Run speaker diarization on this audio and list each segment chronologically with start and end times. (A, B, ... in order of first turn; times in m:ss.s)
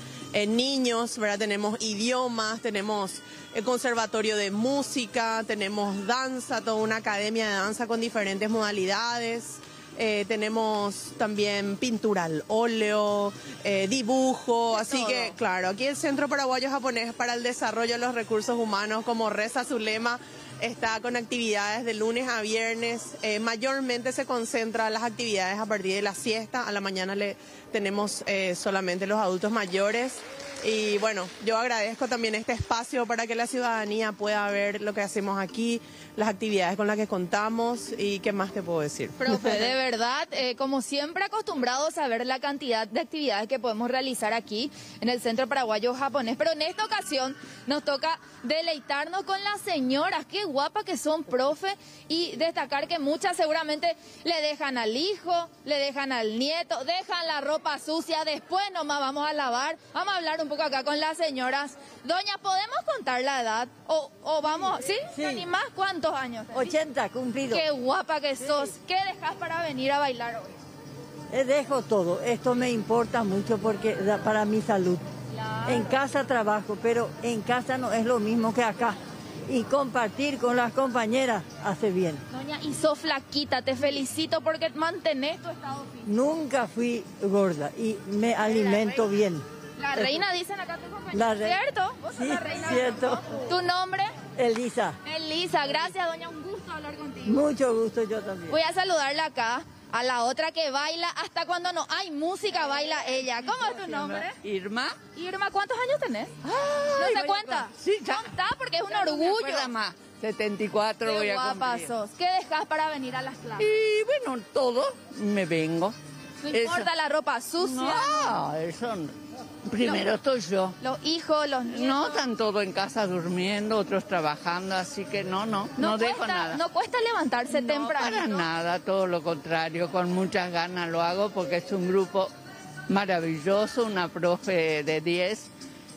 0:00.3-0:39.7 A
0:14.7-0:15.4 B
0:39.2-1:06.8 B
1:05.1-1:05.5 C
1:06.5-1:07.7 C
1:07.5-1:10.6 B
1:11.3-1:15.0 C
1:15.7-1:22.2 C
1:22.3-1:26.1 B
1:26.0-1:30.2 C
1:29.8-1:34.1 B
1:31.1-1:31.6 C
1:32.2-1:33.2 C
1:34.4-1:35.0 C
1:35.0-1:37.4 B
1:37.2-1:38.6 C
1:38.5-1:44.4 B
1:43.7-1:45.0 D
1:45.1-1:46.4 B
1:46.4-1:48.4 D
1:47.0-1:49.7 B
1:48.9-1:51.9 D
1:51.0-1:53.7 B
1:53.6-1:56.0 D
1:56.4-1:58.4 B
1:56.5-1:56.9 D
1:57.6-2:00.8 D
2:00.8-2:02.2 B
2:01.7-2:06.6 D
2:05.8-2:08.4 B
2:07.5-2:12.3 D
2:12.9-2:15.5 D